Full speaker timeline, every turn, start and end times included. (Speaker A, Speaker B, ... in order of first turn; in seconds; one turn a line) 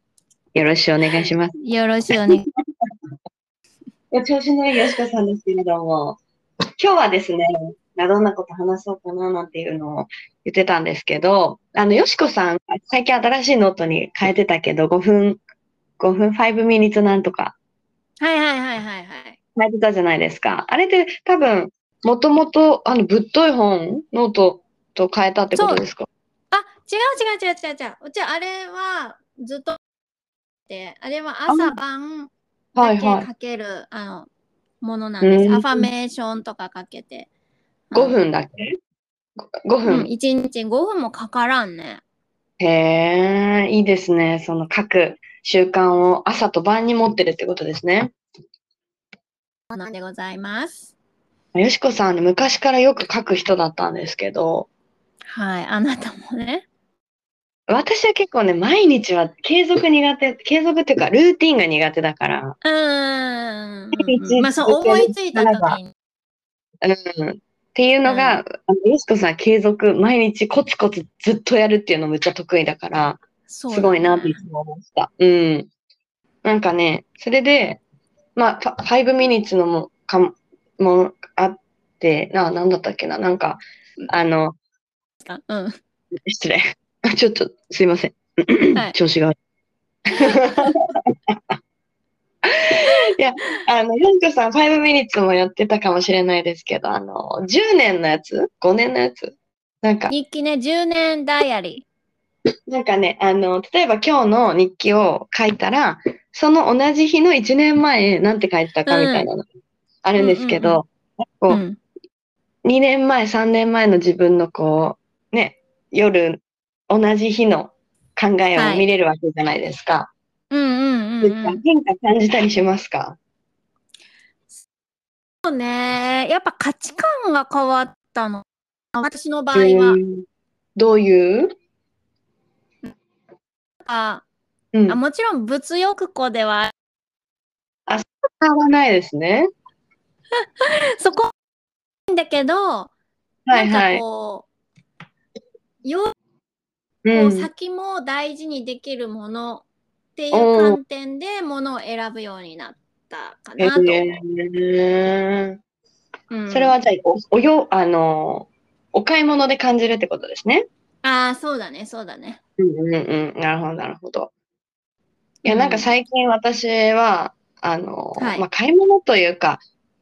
Speaker A: 0.5-1.6
Speaker B: 1.6-2.5
Speaker A: 4.1-6.2
Speaker A: 6.8-15.4
Speaker A: 16.0-17.6
Speaker B: 18.2-19.4
Speaker A: 19.6-26.1
Speaker B: 25.5-25.8
Speaker B: 26.5-29.8
Speaker B: 30.7-34.3
Speaker A: 31.5-31.8
Speaker A: 32.8-33.3
Speaker B: 34.8-37.3
Speaker A: 35.2-35.9
Speaker B: 37.9-38.2
Speaker A: 37.9-38.7
Speaker A: 39.4-40.1
Speaker B: 39.9-42.0
Speaker A: 42.6-48.1
Speaker B: 49.7-50.9
Speaker A: 51.5-54.7
Speaker B: 55.3-56.6
Speaker A: 57.7-62.6
Speaker B: 62.6-65.9
Speaker A: 64.0-65.8
Speaker A: 66.8-75.7
Speaker B: 68.0-68.4
Speaker B: 73.5-74.4
Speaker A: 76.4-77.8
Speaker A: 78.4-84.6
Speaker B: 85.2-85.8
Speaker A: 86.2-89.3
Speaker A: 90.1-91.4
Speaker B: 90.2-90.7
Speaker A: 92.5-100.1
Speaker B: 100.1-101.8
Speaker A: 102.7-109.5
Speaker B: 108.9-109.3
Speaker A: 110.0-111.6
Speaker B: 110.2-110.8
Speaker B: 111.5-111.8
Speaker A: 112.6-120.1
Speaker B: 118.6-118.9
Speaker B: 120.5-121.6
Speaker A: 121.2-123.2
Speaker B: 125.5-130.0
Speaker A: 129.5-130.2
Speaker A: 130.8-131.5
Speaker B: 133.8-134.2
Speaker A: 134.7-135.0
Speaker B: 134.9-136.7
Speaker A: 137.9-139.5
Speaker B: 140.6-141.3
Speaker B: 142.1-142.9
Speaker A: 143.5-144.0
Speaker B: 143.5-144.5
Speaker B: 145.8-146.1
Speaker A: 147.1-147.5
Speaker B: 147.1-154.2
Speaker A: 150.3-150.8
Speaker A: 153.6-155.6
Speaker B: 156.3-156.8
Speaker A: 156.5-160.7
Speaker B: 161.0-162.4
Speaker A: 162.6-164.3
Speaker B: 165.4-165.9
Speaker A: 165.4-169.6
Speaker B: 168.2-168.4